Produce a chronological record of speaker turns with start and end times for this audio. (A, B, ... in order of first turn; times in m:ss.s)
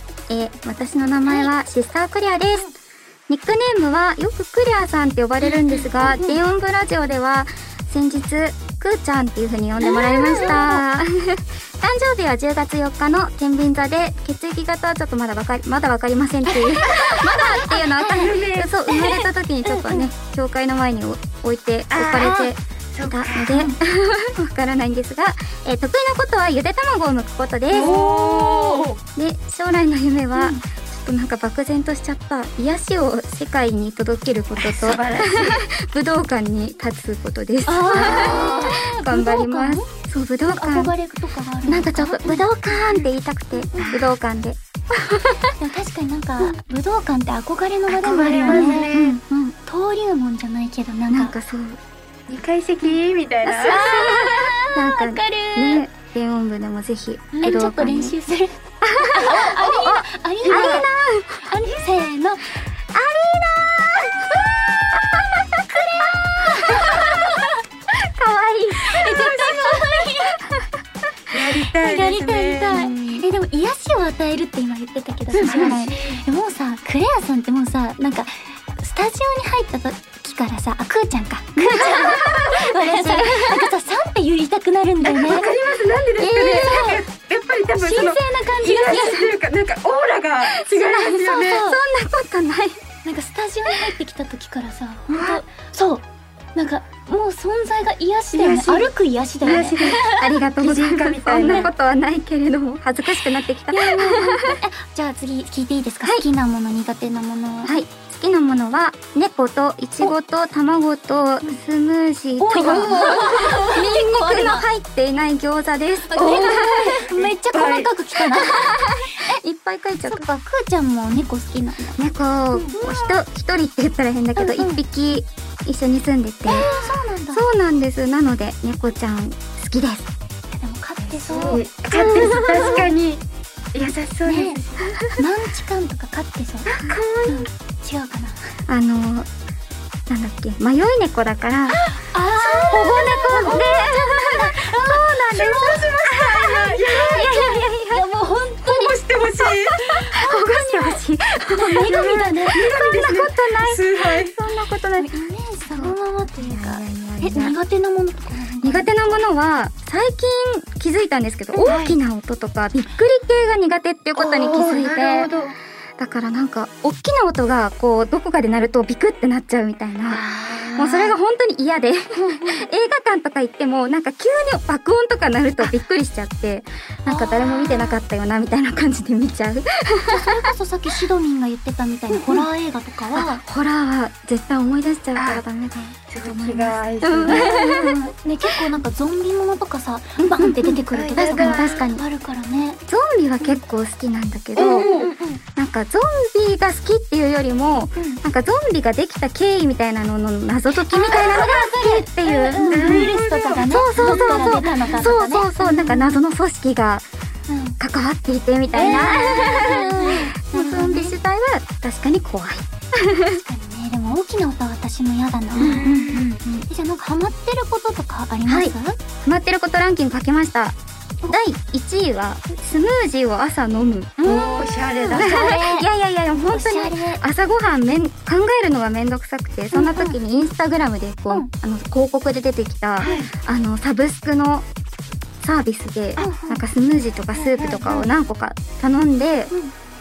0:00.3-0:02.7 A
0:01.2-0:01.5 B
0:03.3-0:40.9 A
0:09.8-0:10.8 B
0:16.5-0:20.0 B
0:18.2-0:18.7 C
0:21.9-0:23.6 C
0:27.7-0:29.0 C
0:27.7-0:28.8 B
0:30.4-0:30.6 B
0:34.6-0:35.6 C
0:37.6-0:39.9 B
0:37.9-0:38.7 C
0:40.4-0:42.8 B
0:41.6-0:45.4 A
0:43.7-0:44.0 B
0:43.8-0:44.1 C
0:45.6-0:51.3 B
0:47.9-0:49.2 C
0:48.4-0:49.5 A
0:51.1-0:51.8 A
0:52.3-0:54.2 C
0:53.5-0:58.2 A
0:53.6-0:55.8 B
0:57.4-1:00.9 B
0:58.8-1:01.4 A
1:00.4-1:00.8 C
1:01.4-1:02.5 B
1:02.9-1:05.7 A
1:05.7-1:07.5 B
1:06.4-1:07.3 A
1:07.9-1:10.7 A
1:08.8-1:10.4 B
1:11.3-1:12.9 C
1:11.8-1:25.6 B
1:15.4-1:15.9 A
1:15.4-1:16.2 C
1:21.6-1:23.7 A
1:25.0-1:31.6 C
1:26.2-1:27.0 A
1:26.5-1:27.0 B
1:27.7-1:29.3 B
1:30.5-1:32.8 A
1:31.2-1:31.8 B
1:33.0-1:40.3 B
1:35.1-1:35.4 C
1:38.3-1:38.9 C
1:39.4-1:41.7 C
1:39.5-1:44.6 A
1:41.3-1:41.7 B
1:43.7-1:47.8 B
1:47.6-1:57.0 A
1:52.4-1:54.7 B
1:56.1-1:59.4 B
1:56.1-1:57.9 C
1:58.5-2:00.2 A
2:00.1-2:03.2 B
2:02.0-2:06.7 A
2:04.4-2:04.8 B
2:06.4-2:07.4 B
2:07.3-2:10.1 A
2:10.5-2:12.8 B
2:11.1-2:13.2 C
2:12.0-2:12.7 A
2:13.7-2:14.7 C
2:14.2-2:18.4 B
2:16.7-2:17.5 C
2:18.7-2:19.3 A
2:20.1-2:21.8 A
2:21.8-2:29.0 B
2:22.4-2:25.8 A
2:25.3-2:27.3 C
2:26.9-2:28.0 A
2:28.7-2:30.0 C
2:29.9-2:35.1 A
2:30.0-2:32.8 B
2:31.9-2:34.4 C
2:35.0-2:39.1 B
2:35.8-2:37.5 A
2:38.6-2:45.3 A
2:41.6-2:42.0 C
2:44.2-2:45.5 C
2:46.0-2:50.2 A
2:50.1-2:51.1 C
2:50.8-3:00.3 A
2:52.2-2:52.6 B
2:57.0-2:58.0 B
3:00.1-3:03.4 B
3:02.1-3:02.4 A
3:03.1-3:08.0 A
3:05.2-3:05.4 C
3:06.1-3:07.6 C
3:07.3-3:12.8 B
3:10.2-3:12.0 A
3:10.9-3:11.8 C
3:12.9-3:15.0 A
3:14.6-3:15.1 C
3:14.6-3:15.4 B
3:15.6-3:23.1 A
3:18.0-3:18.2 B
3:20.9-3:26.1 B
3:22.6-3:24.8 C
3:23.6-3:27.0 A
3:27.5-3:27.8 B
3:27.8-3:33.4 A
3:28.7-3:31.2 B
3:28.8-3:29.4 C
3:33.3-3:39.0 B
3:35.6-3:36.3 C
3:35.6-3:36.7 A
3:38.5-3:38.7 A
3:39.2-3:40.8 A
3:41.3-3:44.3 A
3:44.2-3:47.2 B
3:44.2-3:45.3 C
3:45.1-3:54.6 A
3:49.7-3:50.2 B
3:53.0-3:53.3 C
3:55.4-3:59.5 A
3:56.2-3:56.6 B
3:57.3-3:58.1 C